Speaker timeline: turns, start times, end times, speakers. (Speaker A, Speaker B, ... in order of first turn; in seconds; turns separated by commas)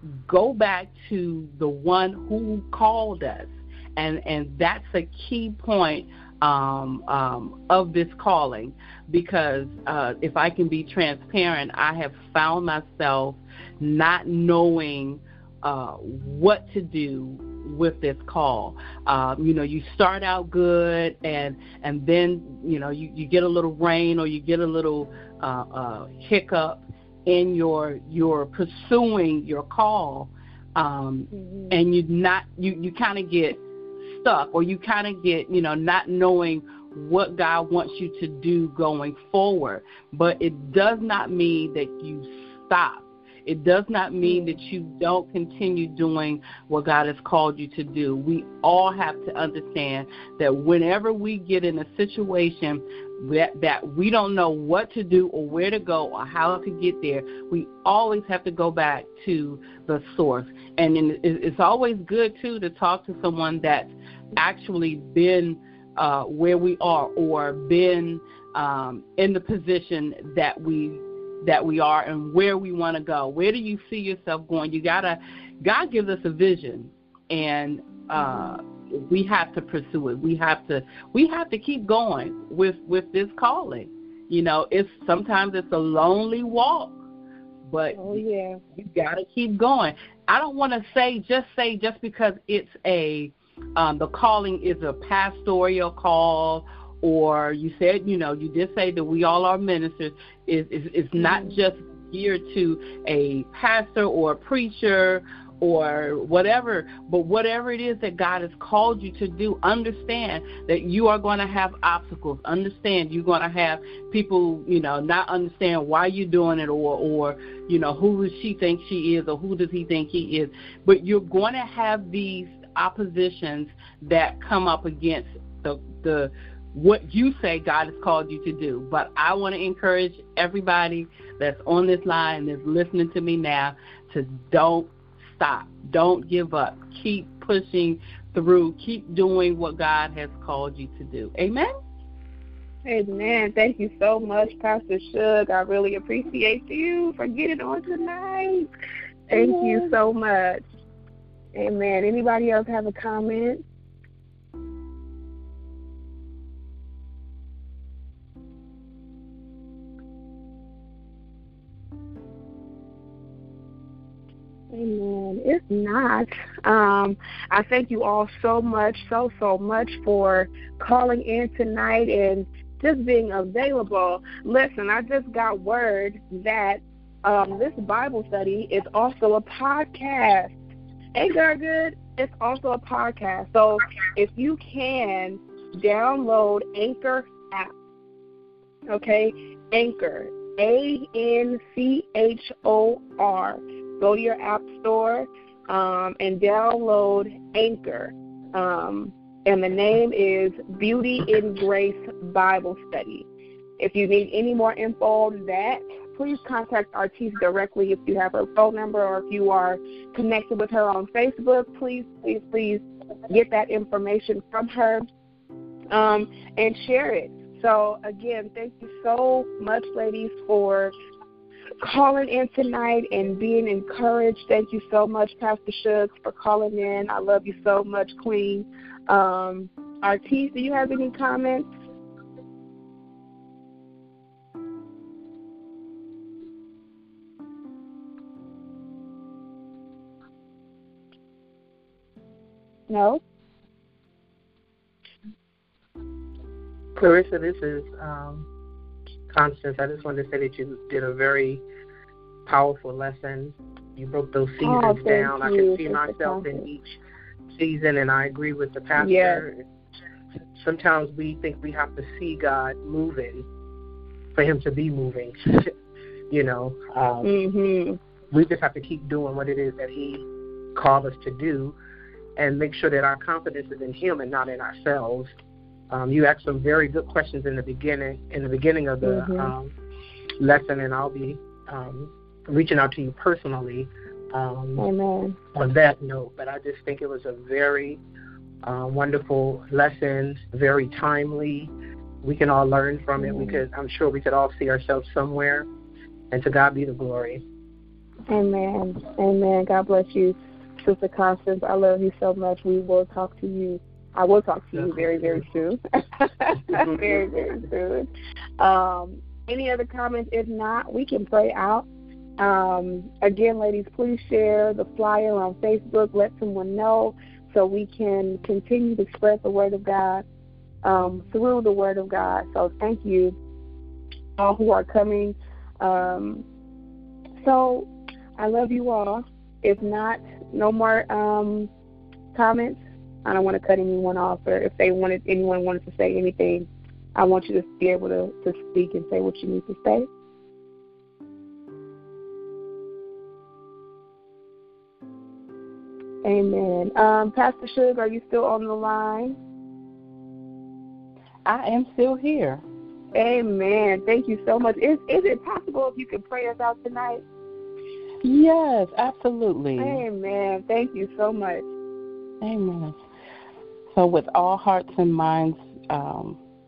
Speaker A: 0.2-87.0, Speaker B: 31.4-31.7, Speaker B: 44.2-44.6, Speaker B: 78.2-78.6, Speaker A: 87.7-88.2, Speaker B: 88.0-88.6, Speaker A: 88.7-141.7, Speaker B: 101.2-101.6, Speaker B: 142.9-148.7, Speaker A: 149.3-150.0, Speaker B: 149.3-150.6, Speaker B: 151.6-153.6, Speaker B: 164.7-180.6, Speaker B: 181.2-187.7, Speaker B: 188.9-203.3, Speaker B: 203.8-215.1, Speaker B: 215.9-220.9, Speaker B: 221.8-231.7, Speaker B: 242.9-243.2, Speaker C: 247.0-248.5, Speaker C: 249.3-251.6, Speaker C: 252.5-256.8, Speaker B: 254.6-256.7, Speaker C: 257.5-259.6, Speaker B: 259.0-259.4, Speaker C: 260.6-263.5, Speaker C: 264.4-265.7, Speaker C: 266.3-267.3, Speaker B: 267.2-268.0, Speaker C: 268.3-271.8, Speaker C: 272.4-275.3, Speaker C: 275.9-279.7, Speaker B: 279.0-279.5, Speaker C: 280.4-284.9, Speaker B: 284.8-285.4, Speaker C: 285.6-288.0, Speaker C: 288.6-291.7, Speaker C: 292.2-295.7, Speaker B: 293.2-293.6, Speaker C: 296.3-297.4, Speaker B: 298.3-311.9, Speaker C: 304.8-305.6, Speaker C: 306.7-307.3, Speaker B: 312.4-320.2, Speaker B: 320.8-323.4, Speaker B: 324.4-326.4, Speaker B: 327.4-331.7, Speaker B: 332.3-340.1, Speaker B: 346.2-349.4, Speaker A: 351.5-352.6, Speaker B: 353.1-357.2, Speaker A: 358.2-360.0, Speaker B: 359.8-361.7, Speaker A: 362.4-363.0, Speaker A: 363.9-366.4